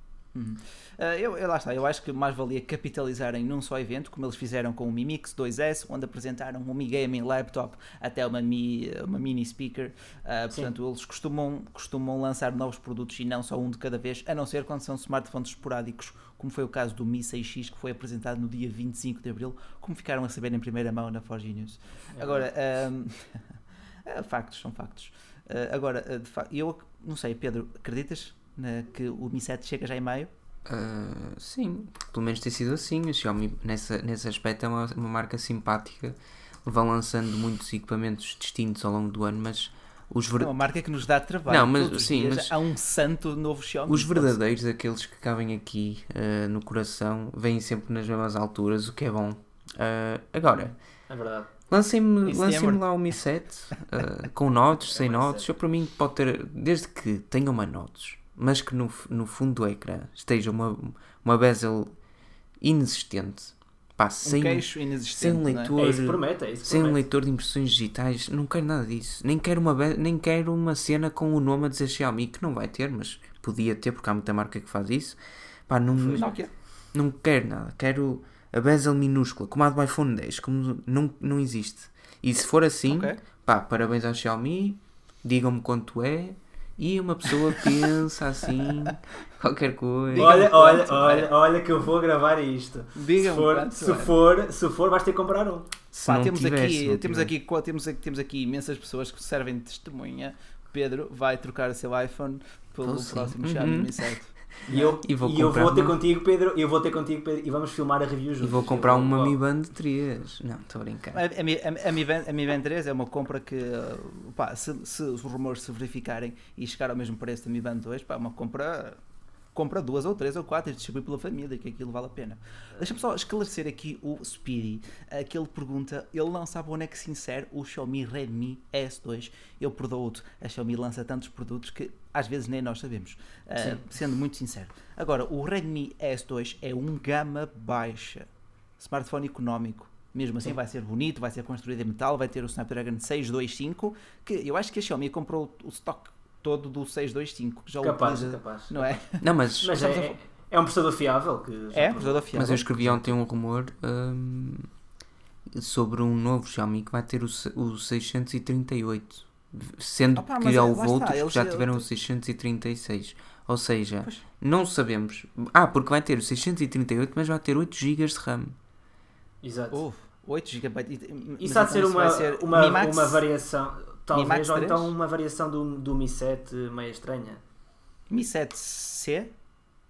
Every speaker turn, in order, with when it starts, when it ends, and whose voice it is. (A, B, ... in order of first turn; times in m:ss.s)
0:00.3-0:23.4 A
0:22.1-0:22.5 B
0:24.1-0:30.3 A
0:30.7-0:40.6 C
0:40.4-0:44.4 A
0:41.5-0:42.5 C
0:43.9-0:50.7 C
0:51.1-0:51.5 B
0:51.7-1:01.9 C
0:52.2-0:52.8 A
0:54.8-0:55.5 B
1:02.6-1:16.3 C
1:04.2-1:05.8 A
1:05.8-1:07.0 B
1:16.0-1:16.3 B
1:16.2-1:16.5 A
1:16.9-1:30.4 C
1:22.9-1:23.2 A
1:30.1-1:31.3 A
1:30.2-1:35.7 B
1:33.0-1:34.2 A
1:35.9-1:37.3 C
1:36.0-1:45.0 A
1:42.8-1:44.1 C
1:44.7-1:49.4 B
1:45.0-1:46.0 C
1:48.4-1:51.2 C
1:51.1-1:59.0 A
1:59.5-2:18.3 A
2:13.6-2:13.8 B
2:18.8-2:30.2 A
2:27.8-2:29.0 B
2:29.2-2:29.8 C
2:29.6-2:32.4 B
2:31.7-2:33.1 A
2:32.3-2:34.7 C
2:35.5-2:48.6 C
2:40.2-2:41.9 A
2:49.4-2:49.8 B
2:49.7-2:53.2 A
2:51.4-2:57.4 B
2:54.1-2:54.9 A
2:58.1-2:59.3 A